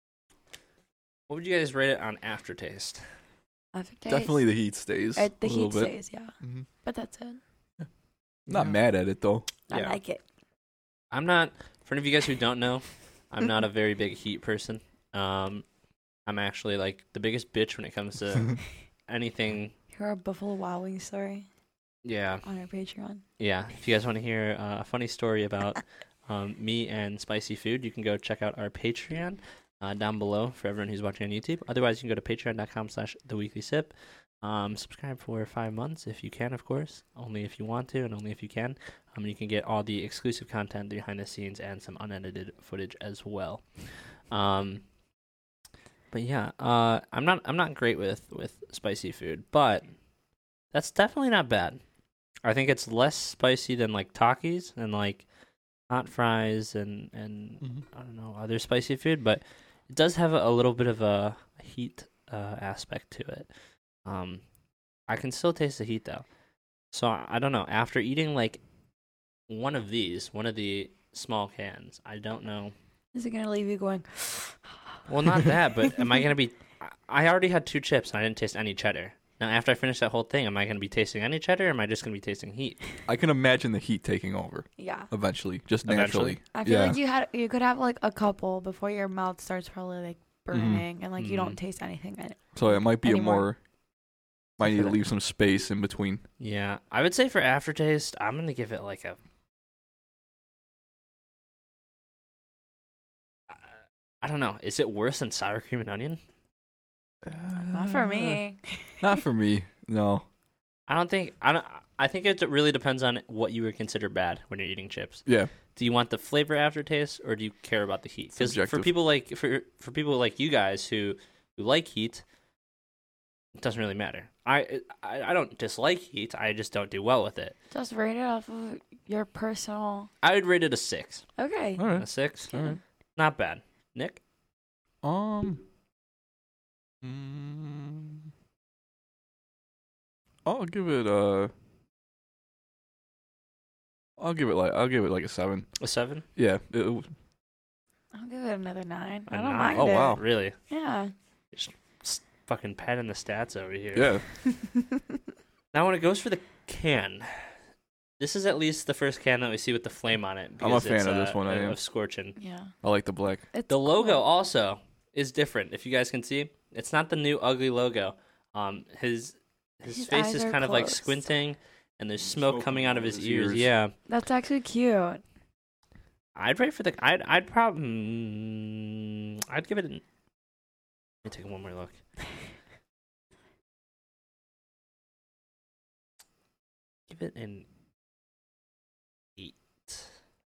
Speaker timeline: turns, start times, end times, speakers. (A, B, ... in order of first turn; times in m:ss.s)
0:01.3-0:03.0 A
0:03.7-0:04.4 B
0:04.1-0:06.6 C
0:05.2-0:07.4 B
0:08.5-0:09.5 C
0:09.7-0:10.2 B
0:09.7-0:10.0 A
0:11.1-0:15.6 A
0:16.2-0:19.7 A
0:19.9-0:21.5 B
0:22.0-0:22.4 A
0:22.4-0:23.2 B
0:23.4-0:43.6 A
0:44.3-0:44.8 A
0:46.1-0:49.9 A
0:50.7-0:51.8 A
0:52.4-0:55.2 A
0:55.9-1:03.5 A
1:04.0-1:04.4 A
1:05.1-1:06.2 A
1:06.9-1:08.6 A
1:09.5-1:12.7 A
1:13.1-1:14.6 B
1:15.1-1:22.8 A
1:23.1-1:27.0 C
1:24.8-1:25.1 B
1:25.8-1:26.4 A
1:26.5-1:33.5 B
1:30.5-1:30.8 C
1:31.2-1:31.6 A
1:32.5-1:33.6 C
1:34.6-1:36.2 C
1:34.6-1:34.9 B
1:36.4-1:39.2 A
1:44.2-1:46.2 A
1:47.2-1:48.4 C
1:47.7-1:49.1 B
1:49.0-1:50.2 C
1:50.9-2:02.2 A
1:58.4-1:58.9 C
2:03.6-2:07.5 A
2:07.7-2:10.1 B
2:10.2-2:11.2 A
2:11.4-2:11.8 B
2:11.8-2:12.8 C
2:11.9-2:12.5 A
2:12.5-2:12.8 B
2:13.2-2:14.2 A
2:15.0-2:15.6 C
2:17.0-2:18.2 C
2:20.4-2:21.5 C
2:24.2-2:25.7 C
2:25.8-2:26.2 A
2:26.4-2:27.1 C
2:28.1-2:31.1 B
2:29.3-2:30.6 A
2:29.6-2:30.2 C
2:31.5-2:34.2 A
2:33.9-2:34.2 C
2:35.7-2:37.5 A
2:38.2-2:42.4 A
2:40.6-2:41.8 C
2:42.4-2:42.7 B
2:42.8-2:43.4 C
2:43.5-2:44.2 B
2:43.7-2:53.9 A
2:49.9-2:51.2 B
2:52.2-2:53.7 C
2:54.1-2:55.2 B
2:56.3-3:00.0 A
3:01.2-3:02.0 A
3:07.1-3:07.6 A
3:09.4-3:10.1 A